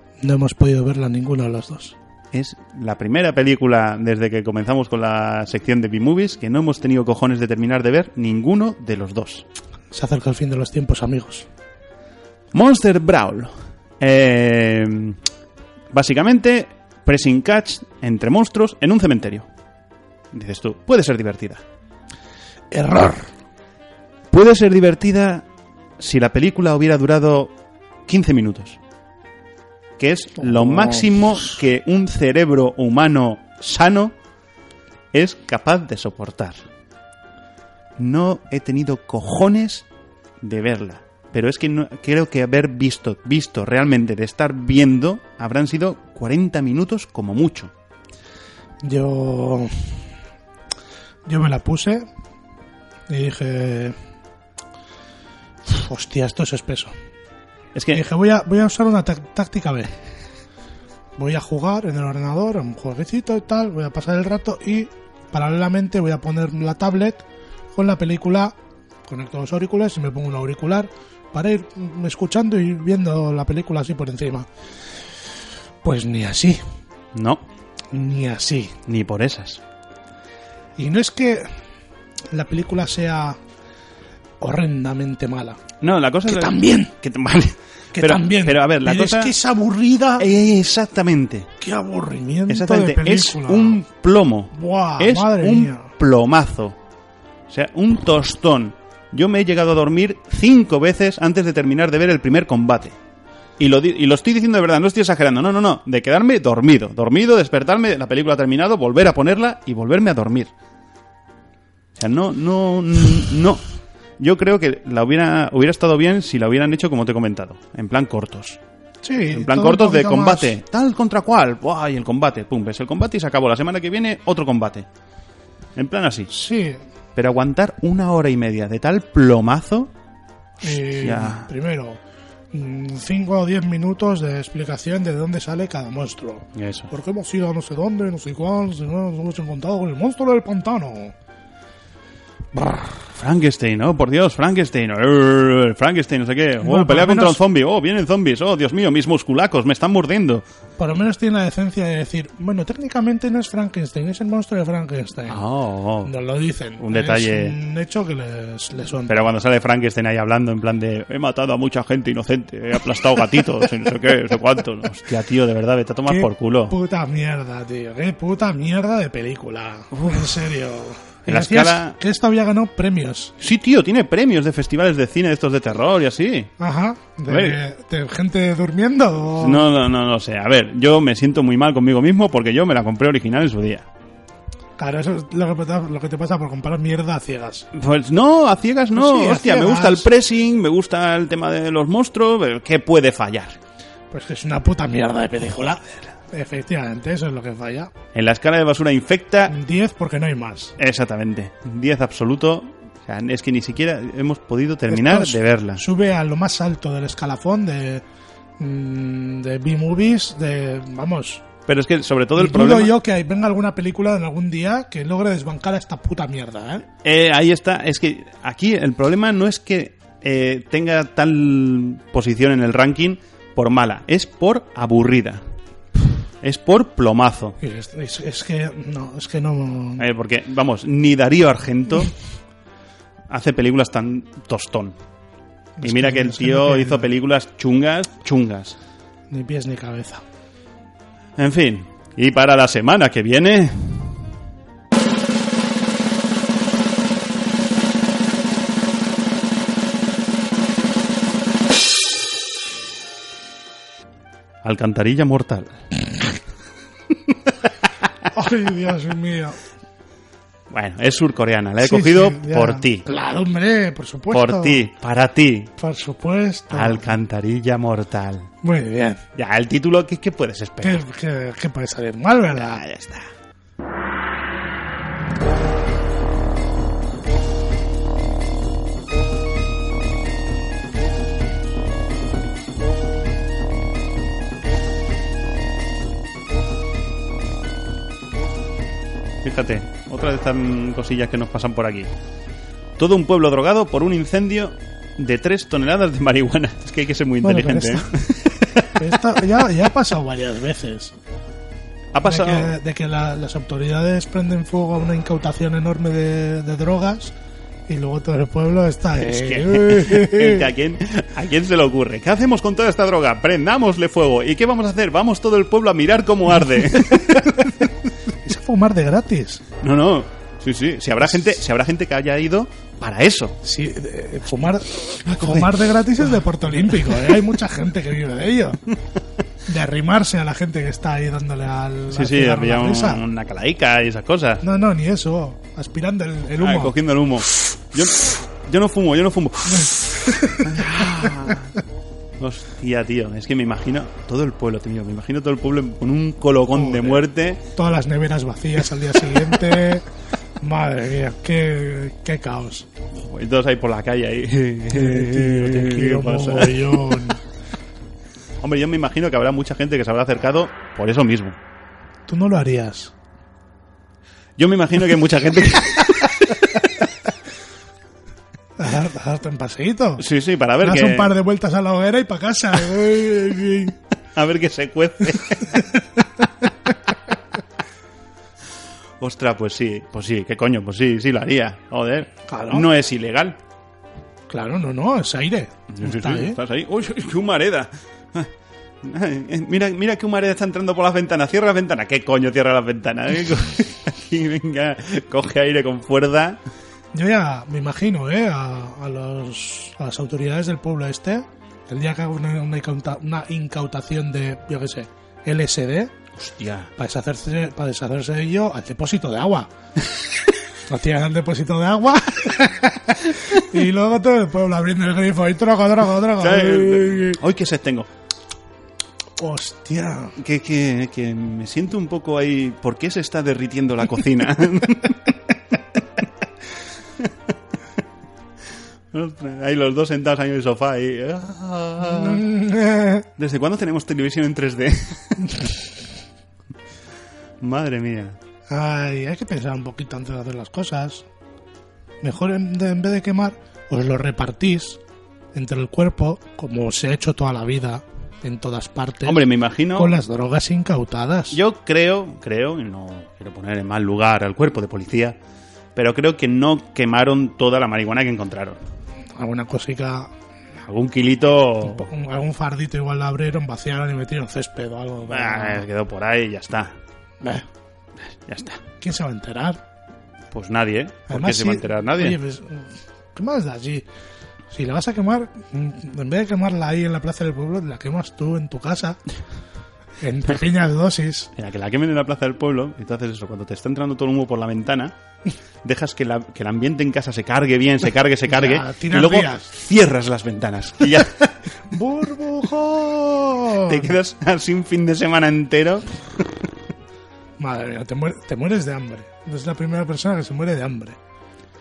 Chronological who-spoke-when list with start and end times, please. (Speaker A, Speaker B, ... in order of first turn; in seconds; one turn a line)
Speaker A: 0.2-1.9
Speaker B: 2.3-9.4
Speaker A: 9.9-11.5
Speaker B: 12.5-15.2
Speaker B: 15.9-19.5
Speaker B: 20.3-21.6
Speaker A: 22.7-23.3
Speaker B: 24.3-25.4
Speaker B: 26.0-27.5
Speaker B: 28.1-28.8
Speaker B: 30.0-34.1
Speaker A: 30.4-31.5
Speaker B: 35.1-36.6
Speaker B: 38.0-39.9
Speaker B: 40.4-47.7
Speaker A: 48.8-50.0
Speaker A: 51.2-52.1
Speaker A: 53.1-53.9
Speaker A: 55.6-56.9
Speaker B: 57.7-58.0
Speaker A: 57.9-59.9
Speaker A: 61.2-74.5
Speaker A: 75.8-76.6
Speaker B: 77.1-77.4
Speaker A: 77.9-78.7
Speaker B: 78.9-79.6
Speaker A: 80.8-81.5
Speaker A: 82.3-83.4
Speaker A: 84.4-85.6
Speaker B: 85.8-89.3
Speaker A: 86.3-86.9
Speaker A: 87.9-90.3
Speaker B: 90.2-91.5
Speaker A: 91.6-93.8
Speaker B: 92.5-96.8
Speaker A: 94.5-95.9
Speaker B: 97.5-103.0
Speaker B: 103.6-110.5
Speaker B: 112.0-113.6
Speaker B: 114.2-118.6
Speaker A: 119.0-120.5
Speaker B: 119.3-124.9
Speaker B: 125.8-126.3
Speaker A: 126.3-126.8
Speaker B: 127.1-129.9
Speaker B: 130.6-131.5
Speaker A: 130.6-132.0
Speaker A: 132.5-141.1
Speaker B: 136.5-136.9
Speaker A: 142.5-143.0
Speaker B: 143.1-150.4
Speaker A: 146.6-147.4
Speaker A: 150.8-155.4
Speaker B: 155.3-156.1
Speaker A: 156.0-159.2
Speaker B: 156.8-157.5
Speaker B: 159.1-166.7
Speaker A: 166.1-173.3
Speaker B: 171.2-172.0
Speaker B: 173.4-176.5
Speaker A: 176.6-179.7
Speaker B: 177.3-177.6
Speaker B: 179.4-183.9
Speaker A: 184.8-187.7
Speaker B: 187.7-193.6
Speaker A: 188.9-190.1
Speaker A: 194.1-197.9
Speaker B: 198.1-199.5
Speaker A: 199.5-200.7
Speaker B: 200.8-205.8
Speaker A: 204.9-208.0
Speaker A: 208.6-211.4
Speaker B: 211.7-212.9
Speaker A: 212.4-216.8
Speaker B: 217.0-225.4
Speaker B: 226.4-227.6
Speaker A: 227.6-230.0
Speaker B: 230.0-232.1
Speaker B: 233.3-234.9
Speaker A: 235.8-237.1
Speaker B: 235.8-238.8
Speaker A: 239.3-240.2
Speaker B: 241.4-244.2
Speaker B: 254.6-255.8
Speaker A: 258.3-259.6
Speaker B: 260.7-263.0
Speaker A: 261.8-264.8
Speaker B: 264.3-265.7
Speaker A: 265.8-267.1
Speaker B: 266.7-268.5
Speaker A: 268.6-269.2
Speaker B: 269.4-271.0
Speaker A: 270.8-272.8
Speaker B: 272.5-273.3
Speaker B: 289.4-292.1
Speaker B: 293.0-299.0
Speaker A: 297.4-298.1
Speaker A: 298.8-301.1
Speaker B: 302.1-302.7
Speaker A: 302.2-307.3
Speaker A: 307.9-310.6
Speaker B: 309.2-317.9
Speaker A: 317.0-317.7
Speaker A: 318.4-319.6
Speaker B: 319.8-323.6
Speaker A: 323.6-328.8
Speaker B: 325.2-327.4
Speaker A: 329.6-333.2
Speaker B: 332.1-334.6
Speaker A: 334.6-336.9
Speaker B: 336.6-341.7
Speaker A: 339.7-340.7
Speaker B: 342.4-347.6
Speaker A: 346.7-350.0
Speaker A: 350.6-352.9
Speaker B: 353.1-357.3
Speaker A: 354.9-357.4
Speaker B: 358.6-361.6
Speaker A: 362.3-363.1
Speaker B: 364.6-366.7
Speaker A: 368.8-370.2
Speaker B: 370.2-371.3
Speaker A: 370.8-373.9
Speaker B: 374.3-375.8
Speaker B: 379.2-383.6
Speaker A: 382.5-382.9
Speaker A: 384.5-386.6
Speaker B: 385.9-388.5
Speaker B: 389.0-396.6
Speaker A: 397.1-406.1
Speaker B: 406.3-406.9
Speaker A: 407.0-409.7
Speaker A: 410.9-417.4
Speaker B: 416.4-418.1
Speaker A: 419.4-420.3
Speaker B: 420.4-425.2
Speaker B: 429.1-432.4
Speaker A: 432.0-433.2
Speaker B: 433.4-435.5
Speaker B: 437.6-438.4
Speaker A: 438.7-441.2
Speaker A: 442.2-445.0
Speaker A: 445.5-451.6
Speaker B: 449.2-450.1
Speaker B: 451.5-455.4
Speaker B: 455.9-458.8
Speaker A: 459.4-460.3
Speaker B: 460.8-462.1
Speaker A: 461.8-465.8
Speaker B: 465.3-467.0
Speaker B: 468.4-468.8
Speaker A: 469.0-469.8
Speaker B: 470.5-472.4
Speaker A: 471.3-474.0
Speaker A: 474.7-479.2
Speaker A: 480.2-481.5
Speaker B: 481.6-485.1
Speaker B: 485.8-491.4
Speaker A: 488.5-489.7
Speaker A: 491.9-494.1
Speaker B: 493.9-496.1
Speaker A: 497.6-501.2